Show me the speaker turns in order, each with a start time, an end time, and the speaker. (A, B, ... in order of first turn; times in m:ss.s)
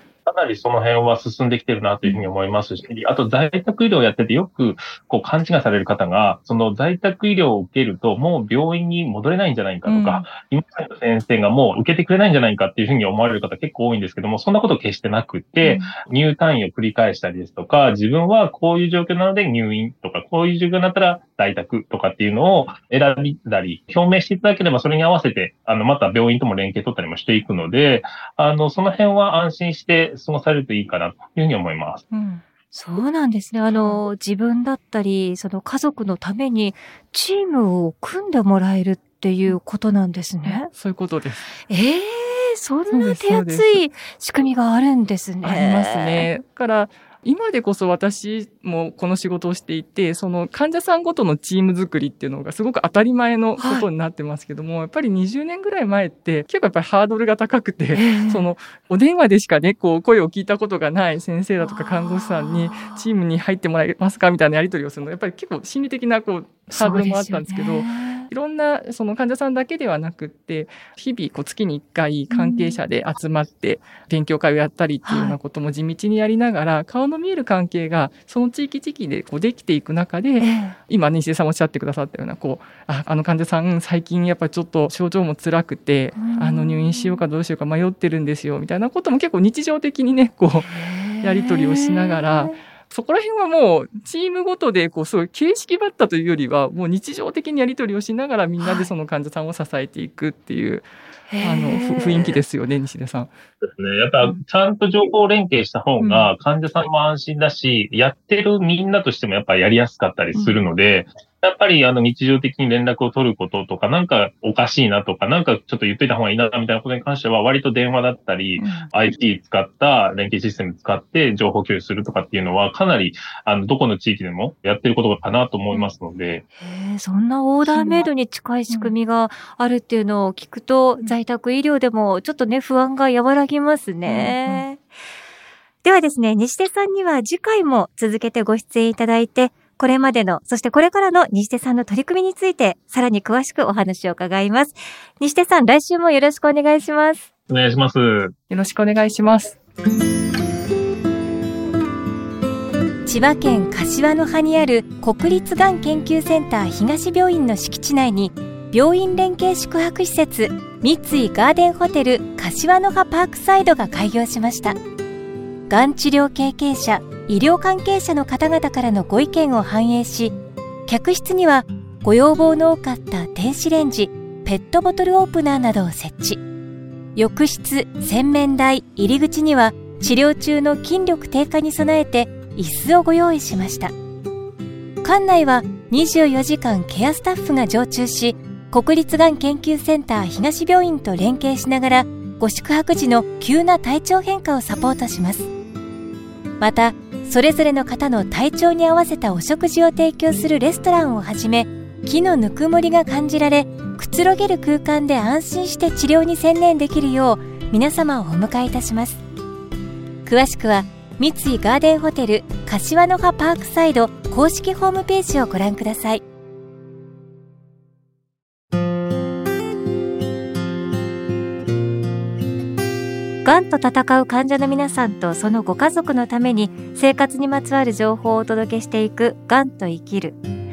0:00.2-0:32.0 A
0:09.9-0:10.2 B
0:32.2-0:40.7 C
0:33.7-0:34.0 B
0:40.4-0:41.5 B
0:41.6-0:46.3 C
0:42.9-0:43.8 B
0:45.4-1:40.9 B
0:53.6-0:53.9 C
0:57.9-0:58.5 C
1:01.6-1:03.0 C
1:06.7-1:08.3 C
1:12.3-1:12.8 C
1:15.0-1:15.4 C
1:20.4-1:20.8 C
1:26.1-1:27.2 C
1:30.7-1:32.6 C
1:38.6-1:38.9 C
1:41.3-1:42.4 C
1:41.4-1:43.3 B
1:43.6-2:06.4 A
1:46.0-1:46.3 C
1:58.6-1:58.9 C
2:06.6-2:14.8 C
2:07.6-2:08.0 B
2:08.7-2:08.9 B
2:14.0-2:14.7 B
2:15.8-2:27.3 C
2:27.5-2:28.3 A
2:28.5-2:29.6 B
2:33.1-2:44.8 C
2:45.7-2:56.4 C
2:57.1-3:03.9 C
3:05.0-3:15.5 C
3:16.6-3:29.2 C
3:30.2-3:36.2 C
3:43.4-3:50.4 C